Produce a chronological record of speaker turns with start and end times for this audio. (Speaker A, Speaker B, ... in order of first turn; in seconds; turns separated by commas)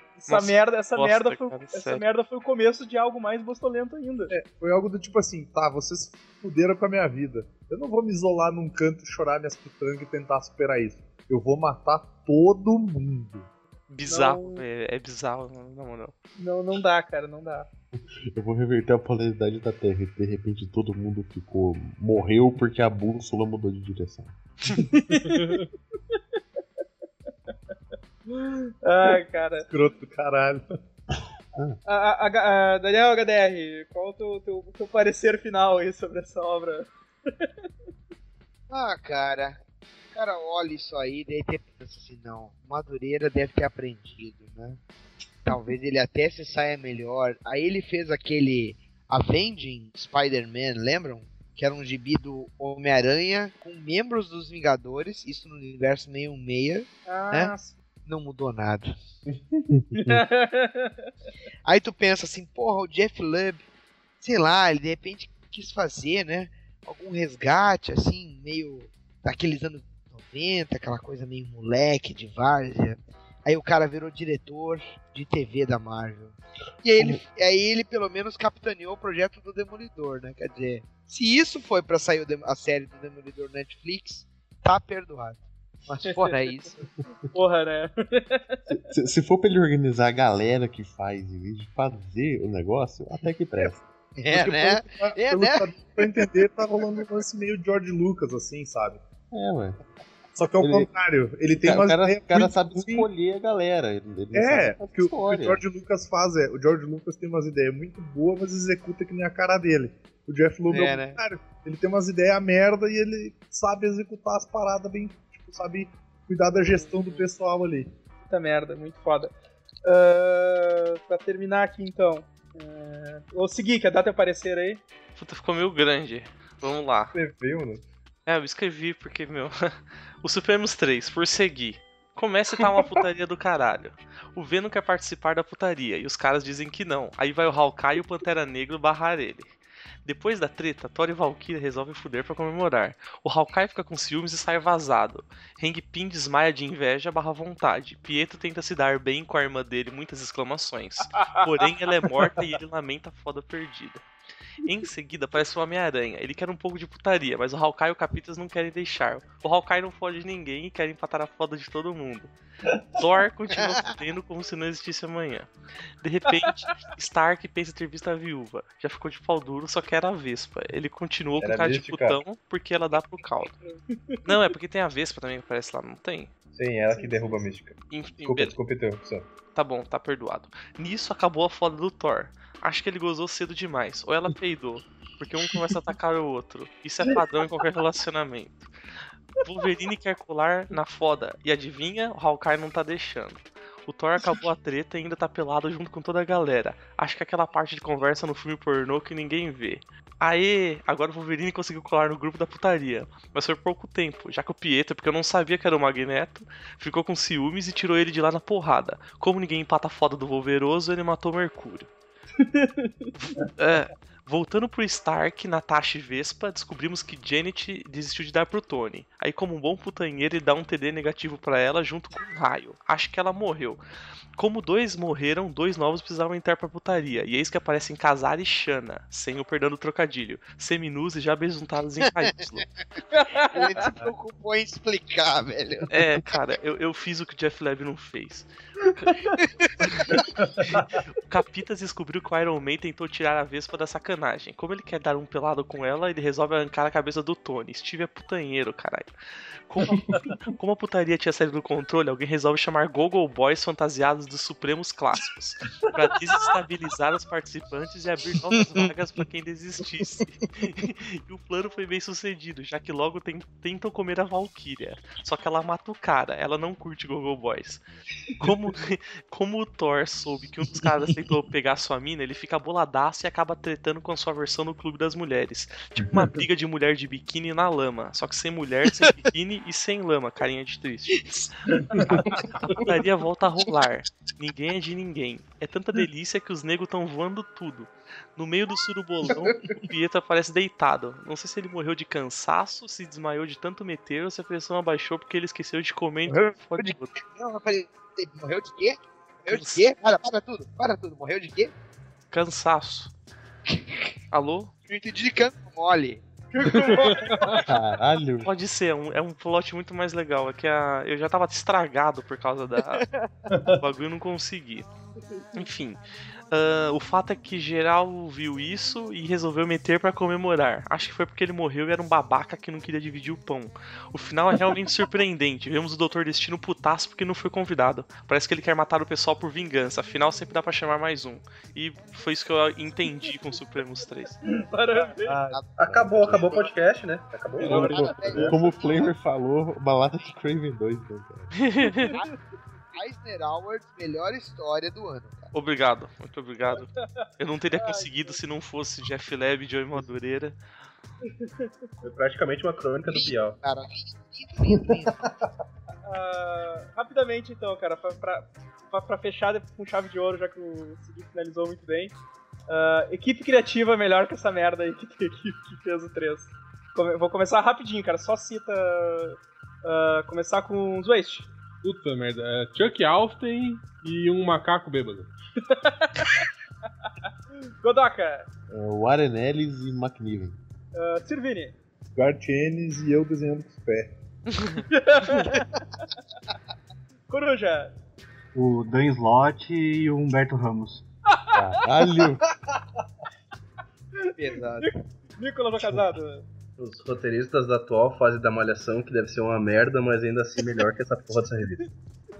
Speaker A: 0.2-4.3, Speaker B: 0.3-2.0, Speaker C: 4.3-13.5, Speaker B: 13.9-16.1, Speaker A: 14.1-14.6, Speaker A: 16.4-17.7, Speaker D: 18.3-24.4, Speaker A: 24.7-25.6, Speaker E: 25.2-25.7, Speaker A: 28.3-29.7, Speaker C: 29.7-30.7, Speaker A: 31.9-37.5, Speaker F: 38.7-39.6, Speaker F: 40.1-44.8, Speaker F: 45.5-57.5, Speaker A: 57.1-57.8, Speaker F: 58.1-58.9, Speaker D: 59.7-60.2, Speaker A: 59.9-60.9, Speaker F: 61.6-63.6, Speaker F: 64.2-86.8, Speaker A: 86.0-86.5, Speaker A: 87.3-88.8, Speaker D: 88.7-93.8, Speaker F: 94.2-96.3, Speaker C: 94.3-99.0, Speaker D: 99.3-99.8, Speaker C: 100.3-103.1, Speaker D: 100.6-100.9, Speaker D: 101.6-105.6, Speaker C: 104.3-117.9, Speaker F: 110.7-111.2, Speaker A: 116.6-117.2, Speaker A: 118.2-119.3, Speaker A: 119.9-124.8, Speaker B: 125.2-127.2, Speaker G: 127.1-127.8, Speaker B: 128.3-139.5, Speaker B: 140.1-154.0, Speaker B: 154.6-162.3, Speaker B: 163.0-165.5, Speaker F: 163.6-163.9, Speaker B: 166.0-173.6, Speaker G: 171.4-172.2, Speaker B: 174.2-176.3, Speaker G: 176.5-179.3, Speaker A: 176.9-177.4, Speaker B: 177.9-178.6, Speaker B: 179.5-188.7, Speaker B: 189.4-211.9, Speaker A: 212.4-212.9, Speaker B: 213.2-223.8, Speaker B: 224.4-232.7, Speaker A: 233.1-233.9, Speaker F: 233.5-235.9, Speaker B: 235.9-239.2, Speaker F: 239.6-240.1, Speaker B: 240.1-249.1, Speaker B: 249.7-267.8, Speaker G: 249.9-250.3, Speaker B: 268.4-281.3, Speaker G: 276.0-276.3, Speaker F: 281.2-281.5, Speaker B: 282.5-297.1, Speaker F: 289.3-289.7, Speaker F: 297.3-301.7, Speaker B: 299.5-299.9, Speaker B: 302.3-303.1, Speaker F: 303.7-304.1, Speaker B: 304.3-304.7, Speaker F: 304.9-307.6, Speaker A: 306.7-307.6, Speaker E: 306.7-307.4, Speaker D: 307.6-308.5, Speaker B: 308.4-313.1, Speaker F: 312.9-313.4, Speaker B: 313.8-314.9, Speaker B: 315.6-316.0, Speaker B: 316.5-334.4, Speaker A: 334.4-335.5, Speaker G: 335.3-338.6, Speaker F: 335.5-336.7, Speaker A: 337.6-338.3, Speaker F: 337.6-339.1, Speaker E: 337.7-338.1, Speaker D: 337.7-341.7, Speaker B: 341.6-342.1, Speaker A: 341.9-342.4, Speaker F: 342.9-345.5, Speaker B: 345.5-350.6, Speaker A: 347.8-348.4, Speaker A: 351.3-351.5, Speaker G: 352.0-353.6, Speaker F: 353.1-355.2, Speaker A: 356.1-362.1, Speaker A: 362.7-371.5, Speaker E: 371.8-375.3, Speaker A: 375.7-376.4, Speaker A: 377.8-378.5, Speaker D: 378.7-380.6, Speaker A: 380.9-381.8, Speaker C: 382.1-384.1, Speaker A: 384.9-385.7, Speaker A: 387.3-387.9, Speaker H: 388.6-391.1, Speaker A: 391.3-392.1, Speaker D: 391.5-392.5, Speaker A: 394.2-396.5, Speaker F: 394.4-394.9, Speaker G: 396.8-401.8